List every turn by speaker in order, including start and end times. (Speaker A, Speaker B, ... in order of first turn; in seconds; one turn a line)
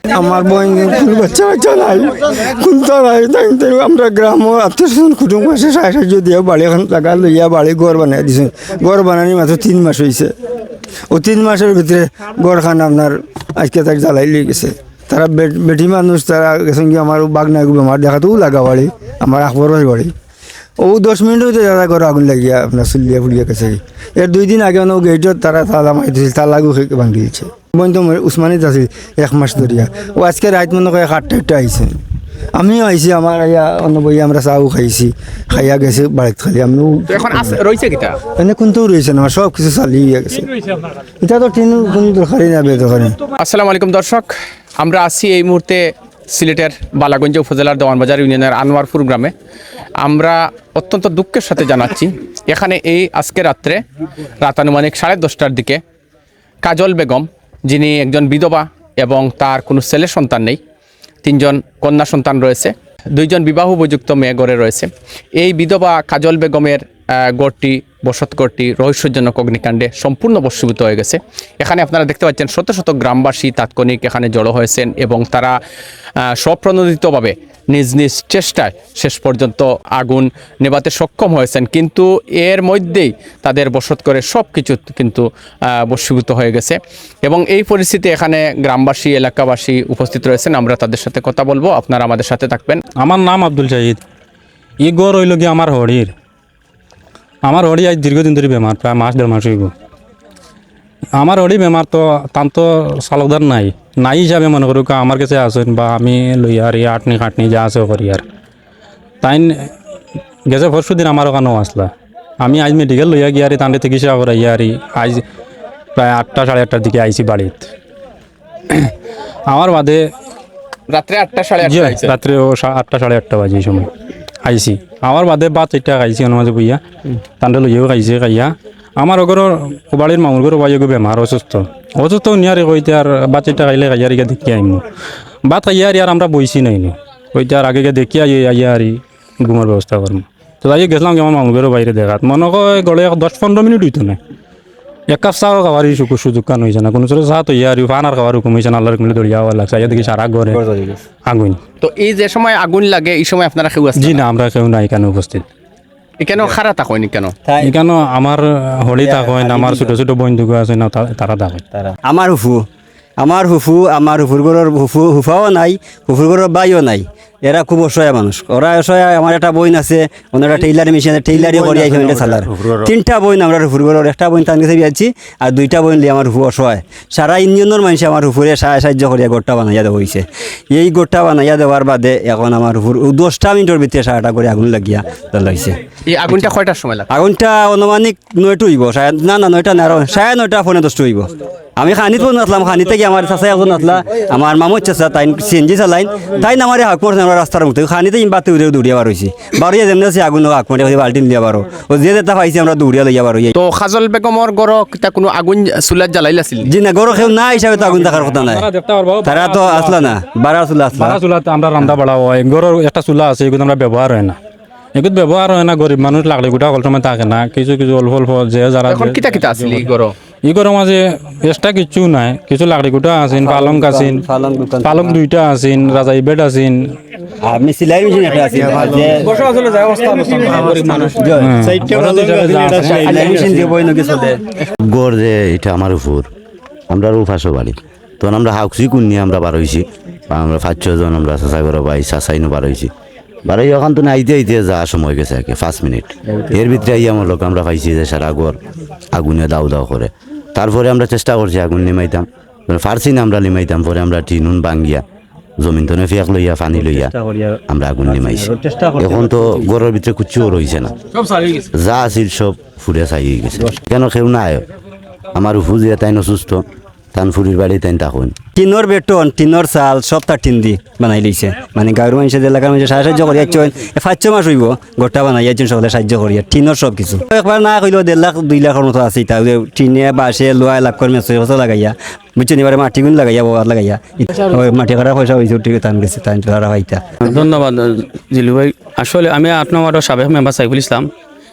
Speaker A: 0.1-10.3
Speaker A: 11.1-20.1
Speaker A: 20.8-31.9
Speaker A: 32.6-37.5
Speaker B: 37.1-38.2
Speaker A: 38.4-40.5
Speaker A: 41.2-43.1
Speaker B: 43.4-49.3
Speaker B: 50.0-53.8
Speaker B: 54.4-55.8
Speaker B: 56.6-60.6
Speaker B: 61.2-66.8
Speaker B: 67.4-75.6
Speaker B: 76.4-85.3
Speaker B: 85.8-92.8
Speaker C: 93.0-94.0
Speaker C: 94.8-96.1
Speaker C: 97.5-99.7
Speaker C: 101.2-108.2
Speaker C: 109.2-109.5
Speaker C: 110.5-115.2
Speaker C: 116.0-117.7
Speaker C: 119.5-120.0
Speaker B: 120.9-122.1
Speaker C: 121.6-123.9
Speaker C: 124.4-126.8
Speaker C: 127.4-134.8
Speaker C: 135.5-144.2
Speaker C: 145.1-150.6
Speaker D: 150.5-151.0
Speaker C: 151.2-151.6
Speaker B: 151.8-154.2
Speaker C: 154.0-155.4
Speaker B: 156.2-157.4
Speaker C: 157.6-161.6
Speaker D: 158.9-160.0
Speaker D: 161.8-162.6
Speaker D: 163.2-185.8
Speaker B: 186.1-187.1
Speaker D: 187.1-203.5
Speaker B: 203.6-206.7
Speaker D: 206.7-208.6
Speaker C: 207.7-210.2
Speaker D: 209.2-211.2
Speaker C: 210.9-214.4
Speaker C: 214.9-219.6
Speaker B: 218.9-220.1
Speaker C: 220.4-224.3
Speaker D: 223.4-225.2
Speaker C: 224.8-226.9
Speaker D: 227.4-229.2
Speaker E: 229.3-231.2
Speaker D: 231.2-234.4
Speaker C: 231.4-233.3
Speaker F: 234.9-236.3
Speaker F: 236.9-242.9
Speaker F: 243.4-248.6
Speaker F: 249.1-255.0
Speaker F: 255.6-260.9
Speaker F: 261.7-264.6
Speaker F: 265.4-268.4
Speaker D: 268.6-287.0
Speaker E: 287.2-291.1